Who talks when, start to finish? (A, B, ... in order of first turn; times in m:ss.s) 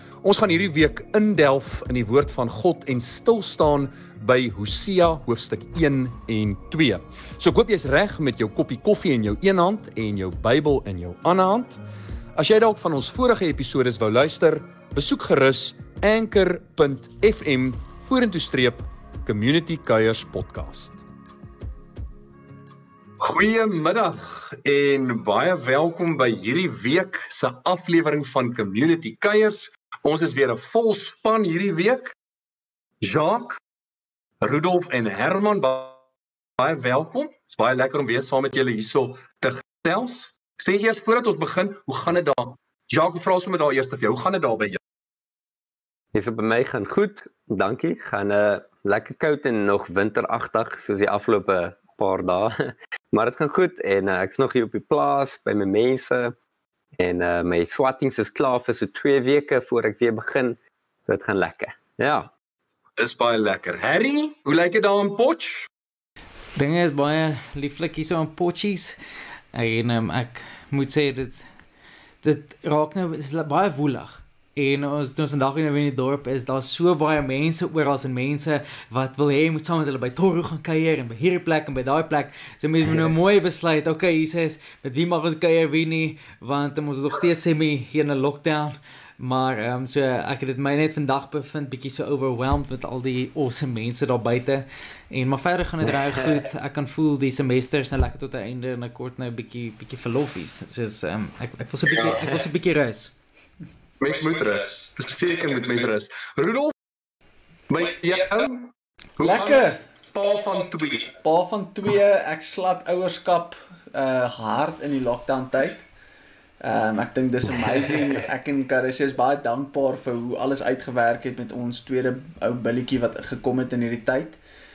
0:00.2-0:11.8 A
0:12.4-0:21.0 A
0:23.2-0:32.1 A
0:33.0-0:33.6 A
0:34.4-0:36.0 A
0:36.6-0:44.8 A
0:46.1-0:56.3 B
0:57.0-1:02.3 B
1:03.0-1:05.7 A
1:06.6-1:09.0 C
1:09.5-1:11.5 C
1:12.2-1:43.1 C
1:44.0-1:46.7 A
1:47.7-1:51.1 A
1:49.2-1:49.8 D
1:51.2-1:55.8 D
1:56.6-2:04.4 D